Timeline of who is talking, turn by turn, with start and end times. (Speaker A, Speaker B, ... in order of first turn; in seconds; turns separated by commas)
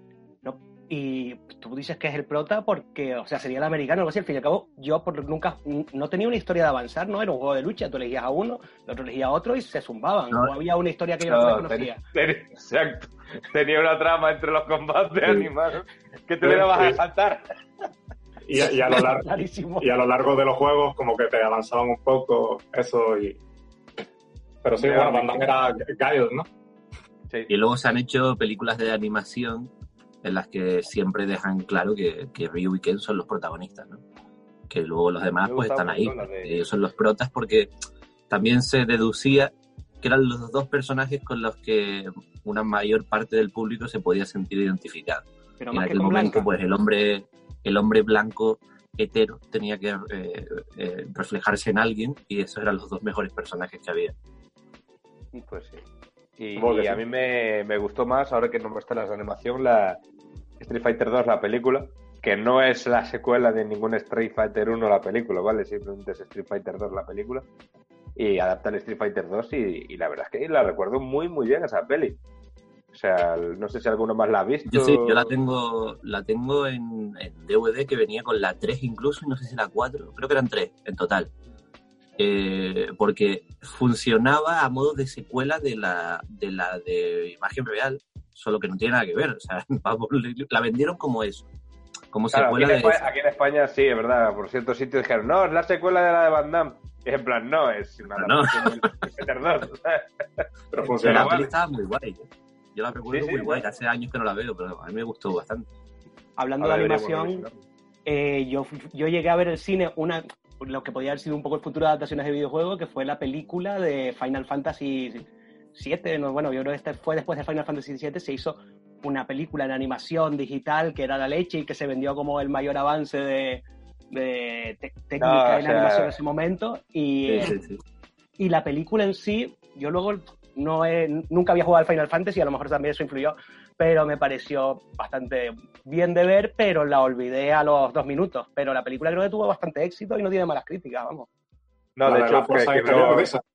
Speaker A: 0.4-12.0, Speaker B: 11.3-17.5, Speaker C: 16.4-17.0, Speaker C: 18.5-19.3, Speaker A: 18.6-19.9, Speaker C: 19.8-23.4, Speaker C: 24.6-26.5, Speaker B: 24.8-25.5, Speaker D: 27.5-29.7, Speaker D: 30.2-34.0, Speaker D: 34.7-37.7, Speaker B: 35.4-36.7, Speaker D: 38.3-54.1, Speaker A: 45.6-46.5, Speaker B: 55.5-55.8, Speaker B: 56.4-60.0, Speaker C: 56.6-57.0, Speaker B: 60.6-67.5, Speaker B: 68.2-72.2, Speaker B: 72.9-75.3, Speaker D: 74.7-81.3, Speaker D: 82.2-91.5, Speaker D: 92.1-93.0, Speaker B: 92.3-101.5, Speaker D: 98.1-98.9, Speaker C: 100.7-101.3, Speaker D: 101.0-105.7, Speaker B: 103.1-103.6, Speaker A: 106.4-107.5, Speaker B: 106.6-107.6, Speaker A: 108.1-127.5, Speaker B: 125.2-126.1, Speaker D: 127.3-127.8, Speaker A: 128.4-141.3, Speaker B: 142.0-143.3, Speaker C: 142.1-143.4